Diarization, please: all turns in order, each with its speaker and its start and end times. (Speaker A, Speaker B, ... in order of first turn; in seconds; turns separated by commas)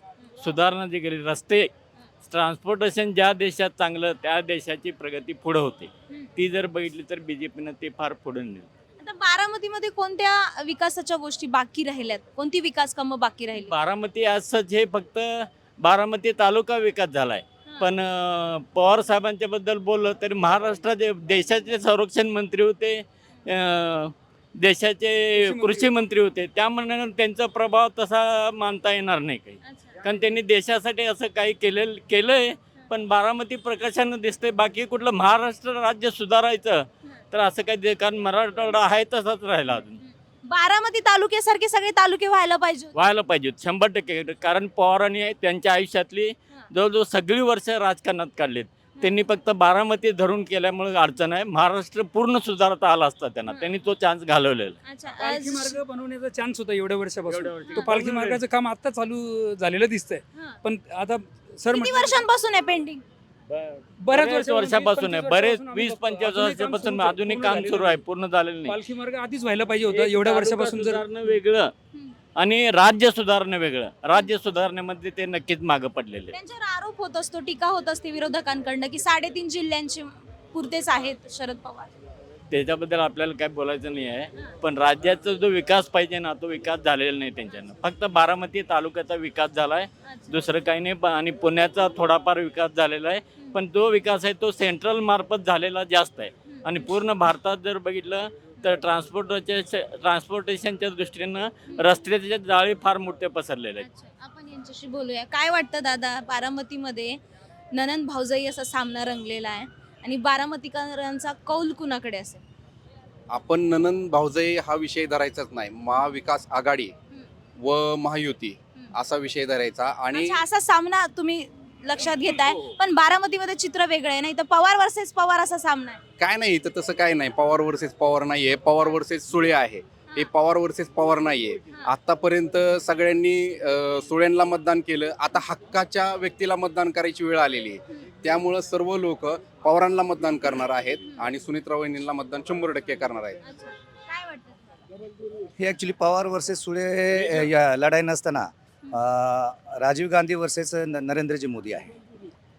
Speaker A: 0.4-1.7, Speaker A: 2.3-8.7, Speaker B: 9.0-13.7, Speaker A: 13.6-40.0, Speaker C: 25.4-25.9, Speaker B: 29.6-29.9, Speaker B: 40.0-42.9, Speaker A: 43.0-54.8, Speaker B: 54.9-55.8, Speaker C: 55.2-62.2, Speaker A: 57.5-58.4, Speaker B: 57.7-58.0, Speaker B: 61.7-63.0, Speaker C: 64.0-68.0, Speaker A: 64.1-68.8, Speaker C: 68.7-71.0, Speaker A: 69.9-71.7, Speaker A: 72.4-76.4, Speaker B: 76.3-81.9, Speaker A: 82.5-103.9, Speaker B: 90.0-90.4, Speaker B: 96.5-96.9, Speaker B: 103.8-107.2, Speaker B: 107.7-112.4, Speaker D: 113.3-116.9, Speaker D: 117.6-120.4, Speaker B: 120.1-126.0, Speaker D: 122.4-122.7, Speaker D: 126.2-143.4, Speaker B: 143.4-144.8, Speaker E: 145.6-151.9